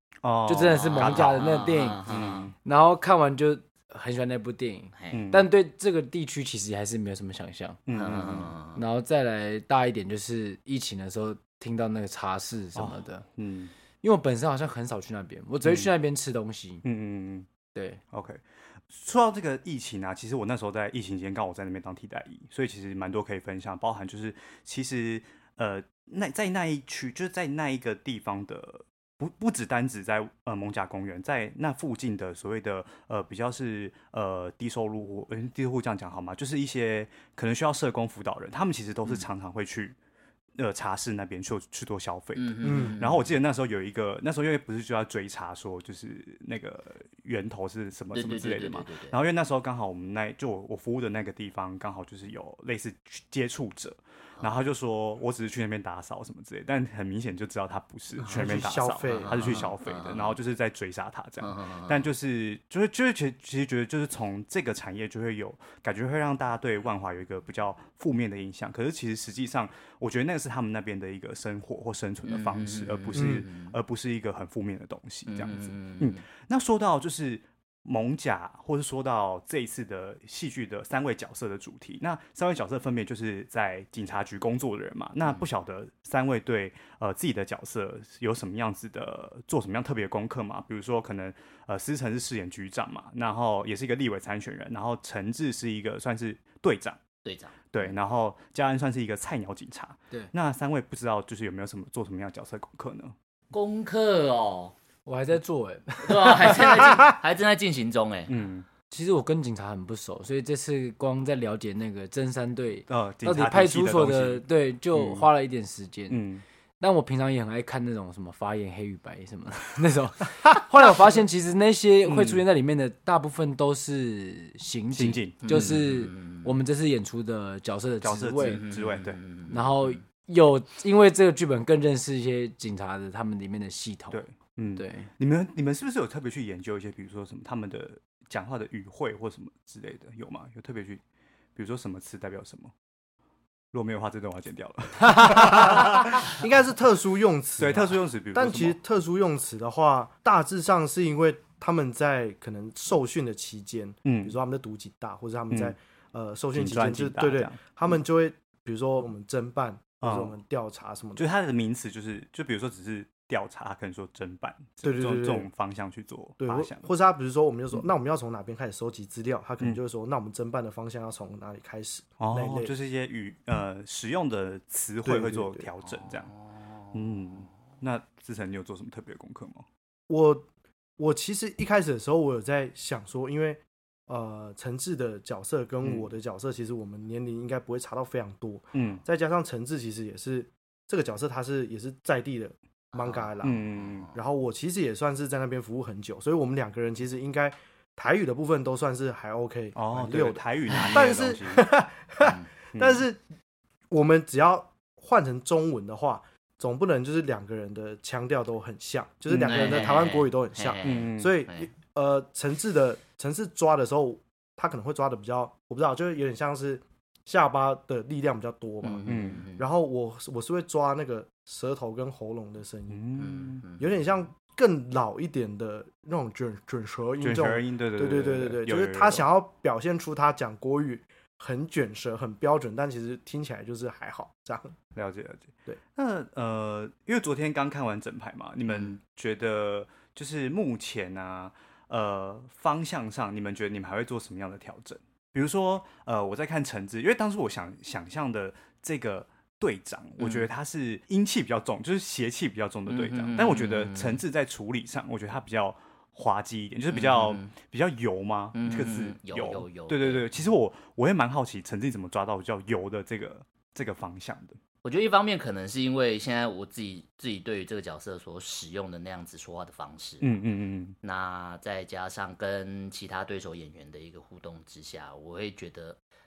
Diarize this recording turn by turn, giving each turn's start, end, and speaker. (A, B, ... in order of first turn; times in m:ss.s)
0:00.2-0:01.5 A
0:00.4-0:02.0 B
0:00.8-0:02.5 C
0:02.0-0:02.5 A
0:02.6-0:07.8 B
0:05.0-0:05.2 C
0:05.1-0:05.5 A
0:07.9-0:08.5 A
0:07.9-0:08.8 C
0:08.7-0:13.2 B
0:12.7-0:13.7 A
0:14.0-0:16.8 B
0:15.6-0:15.9 A
0:16.8-0:17.5 A
0:17.7-0:18.0 B
0:18.1-0:40.0 A
0:40.6-1:37.0 A
0:42.3-0:43.3 C
0:42.6-0:43.0 D
0:48.1-0:49.2 C
0:58.2-1:00.4 C
0:58.3-0:59.7 D
1:01.4-1:02.1 C
1:12.2-1:13.7 C
1:13.1-1:13.4 D
1:15.3-1:16.2 C
1:37.2-1:38.0 C
1:37.7-1:43.1 A
1:43.5-1:44.7 C
1:45.0-1:47.1 B
1:46.0-1:48.4 C
1:48.3-1:48.6 A
1:48.9-1:56.2 B
1:52.9-1:55.3 A
1:56.1-1:56.4 A
1:56.8-2:08.6 B
2:02.0-2:02.4 A
2:04.9-2:05.8 A
2:05.4-2:06.5 C
2:08.0-2:09.2 A
2:08.4-2:10.0 C
2:09.5-2:14.2 B
2:14.1-2:21.0 A
2:14.8-2:15.1 B
2:21.6-2:22.7 A
2:23.7-2:26.4 A
2:25.2-2:41.3 D
2:27.6-2:28.8 A
2:34.0-2:34.4 A
2:36.5-2:37.6 A
2:40.0-2:40.3 A
2:41.2-2:46.8 A
2:44.8-2:45.5 D
2:46.4-2:52.7 D
2:52.2-2:56.3 A
2:55.0-2:55.7 D
2:55.8-2:57.5 C
2:56.9-2:59.6 A
3:00.1-3:00.5 D
3:01.0-3:23.2 D
3:05.8-3:06.1 A
3:08.7-3:09.0 A
3:12.9-3:14.1 C
3:13.4-3:14.1 A
3:19.8-3:21.7 A
3:20.7-3:21.0 C
3:22.2-3:22.5 C
3:22.7-3:23.0 A
3:23.9-3:43.0 D
3:29.3-3:29.9 A
3:29.4-3:31.7 C
3:30.8-3:31.3 A
3:38.8-3:39.6 C
3:39.0-3:39.4 A
3:42.9-3:43.6 A
3:43.2-3:43.9 C
3:43.7-3:54.7 D
3:47.2-3:49.2 A
3:54.9-4:24.6 A
4:10.2-4:10.5 C
4:12.9-4:14.2 C
4:16.9-4:17.5 C
4:18.5-4:20.2 C
4:24.8-4:30.4 C
4:30.2-4:31.0 A
4:31.0-4:36.0 C